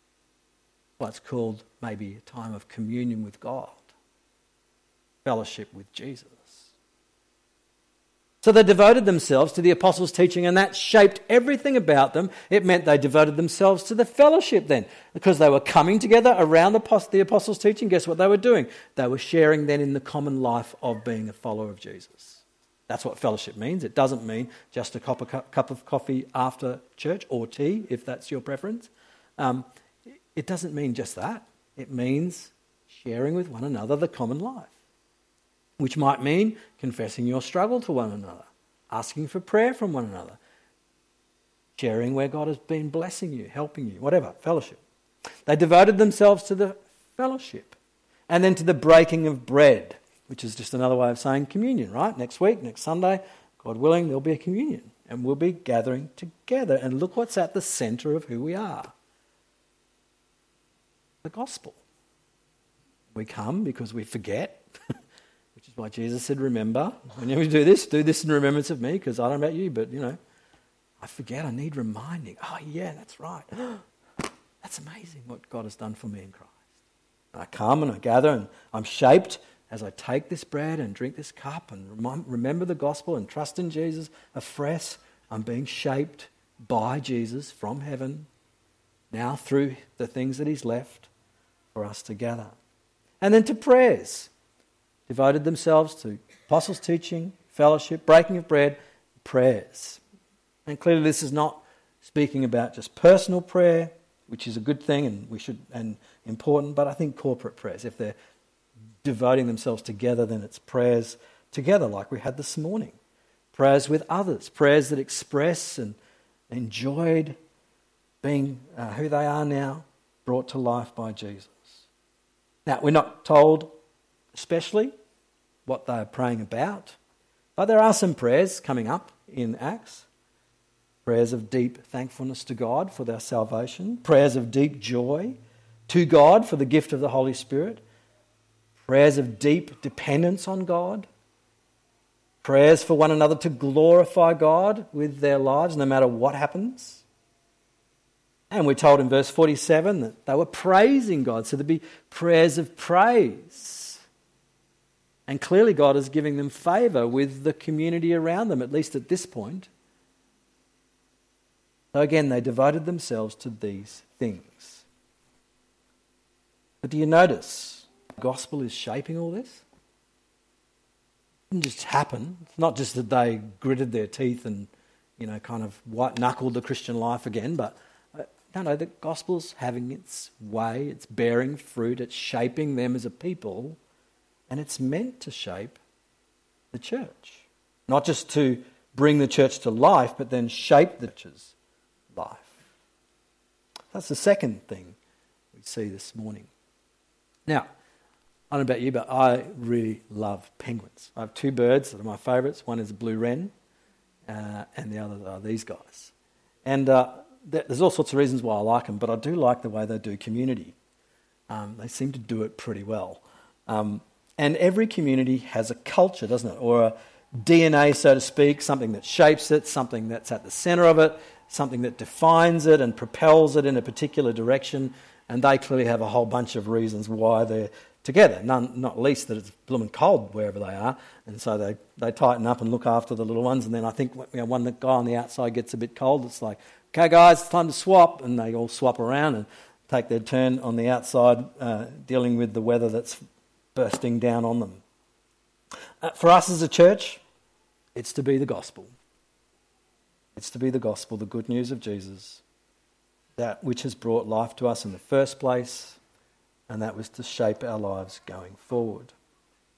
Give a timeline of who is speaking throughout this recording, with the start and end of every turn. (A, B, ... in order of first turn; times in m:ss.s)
0:01.0-0:03.9 A
0:05.2-0:06.7 A
0:08.4-0:29.7 A
0:30.3-0:34.8 A
0:35.8-0:40.4 A
0:41.8-0:44.8 A
0:45.5-0:47.8 A
0:48.3-0:58.9 A
1:01.2-1:01.8 A
1:03.1-1:04.6 A
1:05.6-1:10.2 A
1:11.0-1:13.8 A
1:14.6-1:16.6 A
1:17.3-1:28.3 A
1:29.1-1:31.1 A
1:31.7-1:32.6 A
1:33.2-1:34.3 A
1:35.1-1:40.0 A
1:40.7-1:48.2 A
1:49.0-1:53.0 A
1:53.5-1:56.0 A
1:56.5-1:57.4 A
1:58.2-2:01.9 A
2:02.7-2:03.7 A
2:04.3-2:04.9 A
2:05.7-2:07.0 A
2:07.6-2:10.1 A
2:11.0-2:17.8 A
2:18.8-2:21.1 A
2:22.4-2:27.0 A
2:28.5-2:34.0 A
2:35.3-2:39.7 A
2:41.9-2:44.8 A
2:46.8-2:49.6 A
2:51.5-3:03.8 A
3:04.5-3:05.8 A
3:06.7-3:11.6 A
3:12.1-3:12.6 A
3:13.9-3:15.0 A
3:15.5-3:16.5 A
3:18.5-3:23.5 A
3:24.3-3:26.1 A
3:26.6-3:30.8 A
3:31.5-4:03.2 A
4:03.8-4:04.8 A
4:06.0-4:07.2 A
4:08.0-4:08.9 A
4:10.4-4:12.4 A
4:13.4-4:16.0 A
4:16.7-4:19.1 A